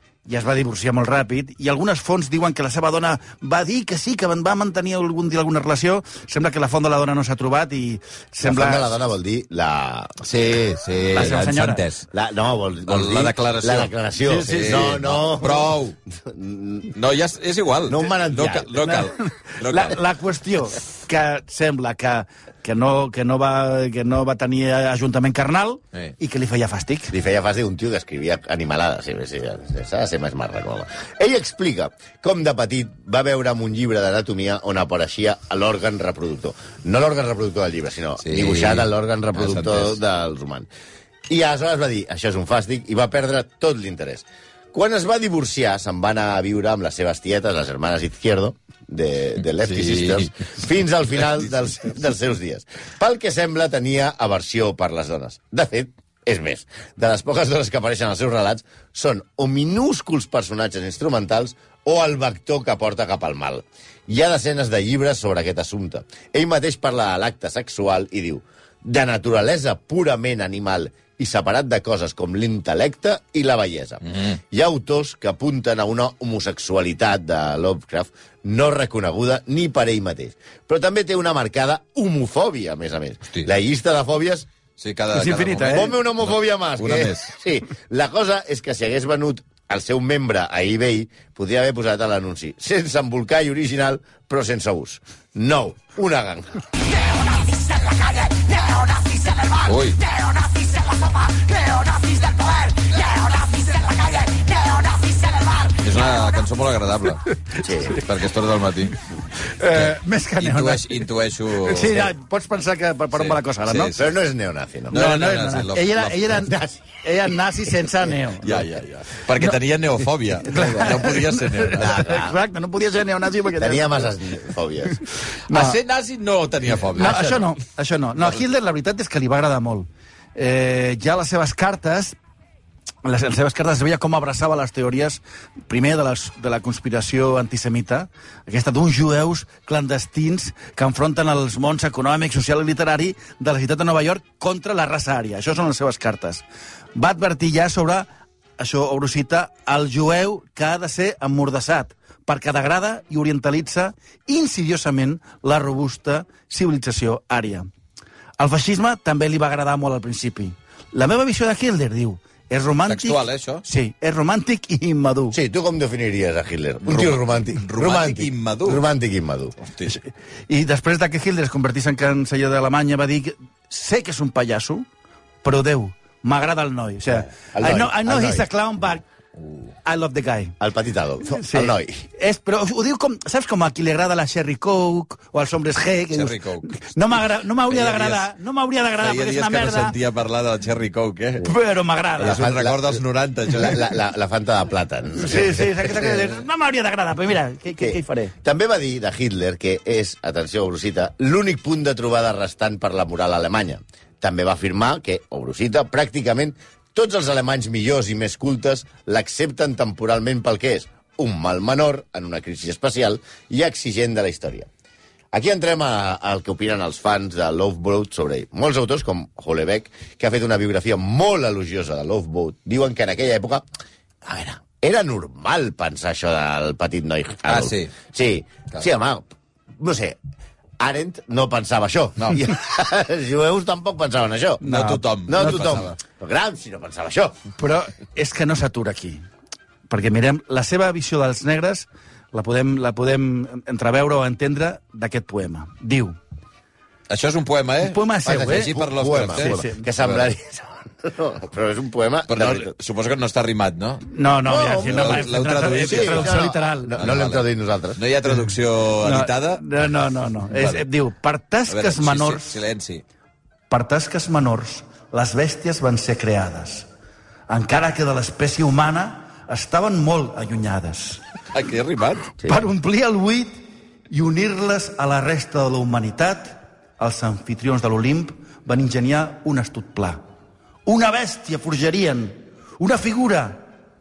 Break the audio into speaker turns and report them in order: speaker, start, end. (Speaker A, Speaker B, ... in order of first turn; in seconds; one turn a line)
Speaker A: 0.3-8.9
Speaker B: 8.4-11.4
Speaker C: 10.3-12.1
Speaker A: 11.1-11.8
Speaker B: 12.1-16.9
Speaker C: 12.9-15.9
Speaker A: 14.2-15.0
Speaker C: 16.9-20.0
Speaker B: 17.9-18.9
Speaker A: 18.8-27.1
Speaker B: 27.1-40.7
Speaker C: 38.2-40.0
Speaker B: 41.3-84.5
Speaker C: 49.6-50.5
Speaker C: 84.8-87.3
Speaker A: 85.2-85.9
Speaker B: 85.7-96.7
Speaker B: 97.2-99.5
Speaker C: 99.7-100.0
Speaker A: 100.2-105.6
Speaker C: 105.8-107.3
Speaker B: 107.6-108.0
Speaker C: 107.9-109.0
Speaker A: 109.5-111.0
Speaker C: 109.7-112.1
Speaker A: 111.6-113.9
Speaker C: 113.1-114.1
Speaker B: 114.0-114.9
Speaker C: 114.9-116.5
Speaker A: 114.9-118.7
Speaker C: 118.4-122.0
Speaker A: 120.5-124.1
Speaker B: 121.8-122.4
Speaker B: 123.6-125.0
Speaker A: 125.5-125.8
Speaker C: 125.5-127.4
Speaker A: 127.0-132.2
Speaker B: 127.0-127.5
Speaker A: 133.0-146.4
Speaker A: 147.0-157.7
Speaker A: 158.4-165.4
Speaker C: 162.9-163.6
Speaker B: 165.3-169.6
Speaker C: 166.8-168.8
Speaker C: 169.7-170.0
Speaker A: 170.5-174.9
Speaker A: 175.4-179.0
Speaker B: 177.4-178.4
Speaker C: 179.4-179.7
Speaker A: 179.8-180.6
Speaker B: 180.6-182.0
Speaker A: 181.2-189.9
Speaker C: 186.1-186.8
Speaker C: 187.7-188.3
Speaker C: 189.0-191.5
Speaker A: 191.4-192.5
Speaker C: 192.2-193.9
Speaker B: 192.2-196.2
Speaker A: 195.2-198.3
Speaker B: 197.8-214.7
Speaker B: 215.3-223.7
Speaker B: 224.2-230.2
Speaker C: 227.5-227.9
Speaker B: 230.8-234.6
Speaker A: 234.6-235.9
Speaker C: 234.6-235.9
Speaker B: 235.3-237.4
Speaker A: 237.6-239.2
Speaker A: 239.9-246.2
Speaker C: 247.1-250.3
Speaker A: 247.8-248.7
Speaker B: 248.3-252.7
Speaker A: 249.3-249.8
Speaker C: 252.3-254.1
Speaker A: 254.1-257.0
Speaker B: 254.4-258.0
Speaker C: 254.8-256.4
Speaker C: 256.9-259.6
Speaker A: 259.0-262.6
Speaker C: 260.5-260.8
Speaker C: 261.7-263.0
Speaker A: 263.7-266.9
Speaker A: 267.5-271.2
Speaker C: 271.5-272.3
Speaker A: 272.4-273.5
Speaker A: 274.1-280.2
Speaker A: 280.9-283.7